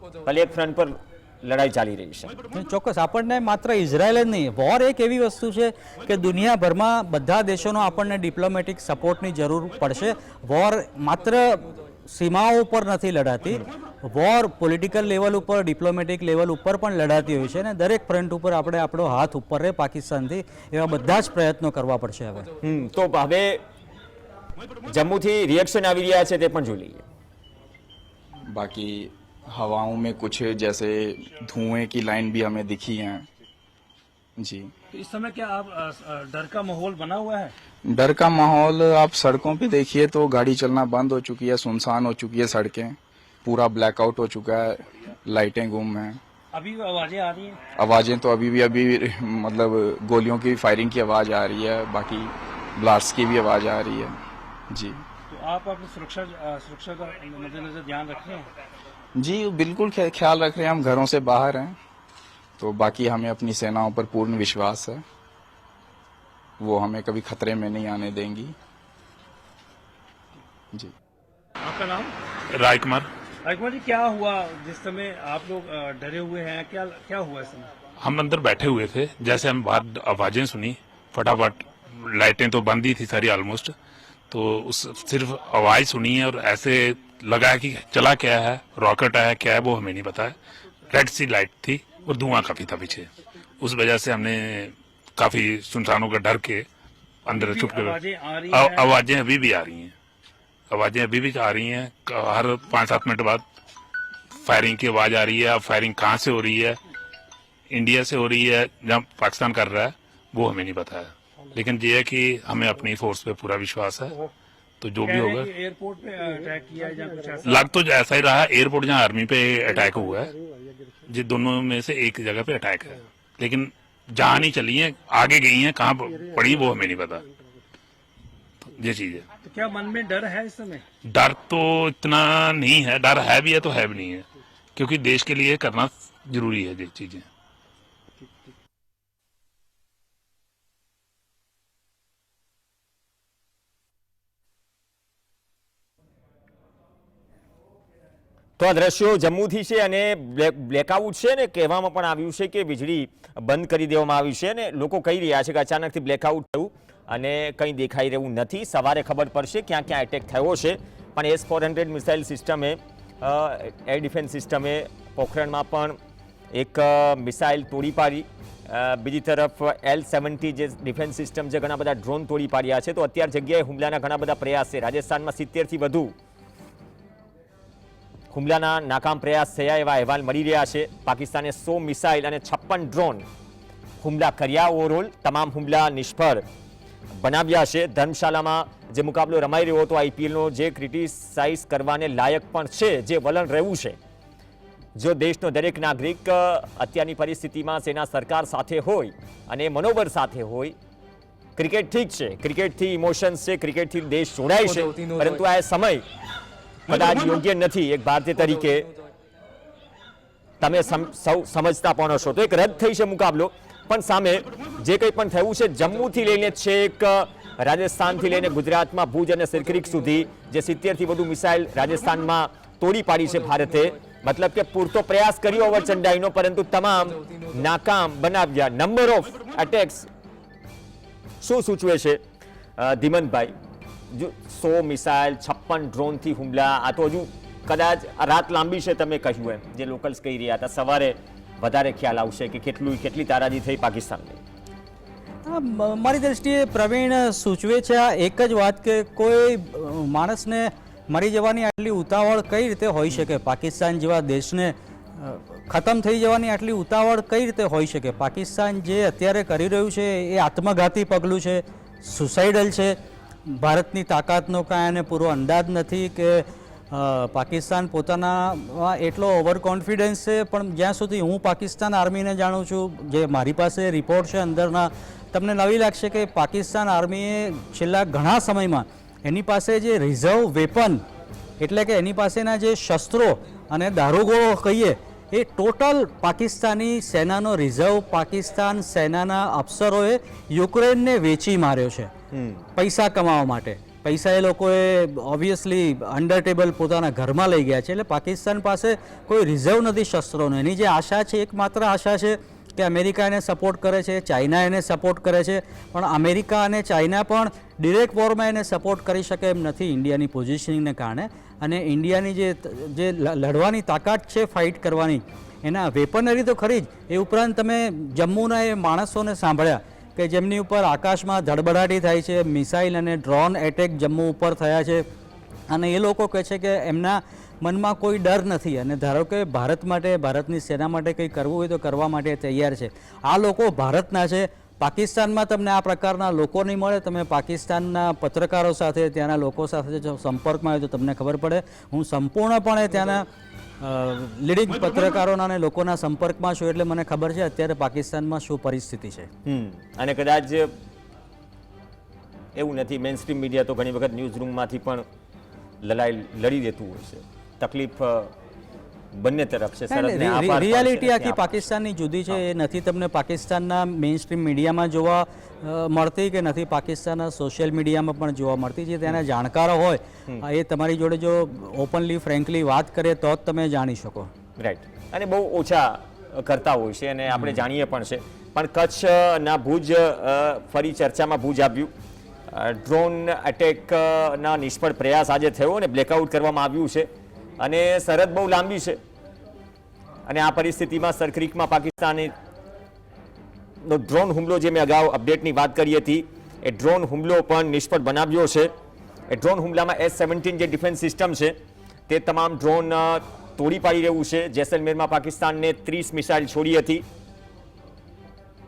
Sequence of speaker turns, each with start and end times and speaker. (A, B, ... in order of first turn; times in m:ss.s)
0:00.2-0:02.4 A
0:02.5-0:22.5 B
0:22.6-0:23.6 A
0:24.9-0:27.0 A
0:28.5-0:33.3 C
0:34.4-0:34.7 C
0:34.9-0:37.5 D
0:37.9-0:46.2 C
0:46.5-0:47.6 D
0:47.8-0:55.0 C
0:55.3-0:58.5 D
0:59.2-1:01.8 C
1:02.6-1:05.0 C
1:06.6-1:08.6 C
1:11.6-1:12.2 D
1:12.5-1:13.1 E
1:13.4-1:17.7 D
1:18.0-1:23.7 E
1:24.3-1:30.4 E
1:30.9-1:36.7 E
1:37.2-1:38.0 E
1:37.3-1:38.9 D
1:38.5-1:39.9 E
1:40.7-1:43.4 E
1:44.4-1:46.8 E
1:47.7-1:54.2 E
1:54.8-1:55.5 E
1:55.0-1:57.6 D
1:57.4-2:00.3 E
2:01.1-2:07.3 E
2:08.7-2:09.3 E
2:09.4-2:10.8 D
2:11.0-2:17.3 E
2:28.6-2:46.0 A
2:46.5-2:56.1 A
2:58.3-3:03.3 A
3:04.0-3:06.4 A
3:07.2-3:14.0 A
3:15.0-3:20.8 A
3:21.6-3:26.1 A
3:26.9-3:28.9 A
3:30.6-3:50.1 A
3:51.4-3:52.2 A
3:52.8-3:53.6 A
3:54.1-4:04.4 A
4:05.4-4:41.0 B
4:41.6-4:52.1 B
4:52.3-4:52.6 A
4:52.8-5:25.1 B
5:25.7-5:43.3 B
5:43.8-5:49.3 B
5:49.4-5:50.7 A
5:52.6-5:55.0 A
5:55.8-5:58.3 A
5:59.1-6:01.7 A
5:59.9-6:14.3 B
6:14.6-6:21.9 A
6:22.5-6:27.1 A
6:27.6-6:29.0 A
6:30.3-6:32.3 A
6:33.8-6:38.7 A
6:39.3-6:41.6 A
6:42.1-6:47.0 A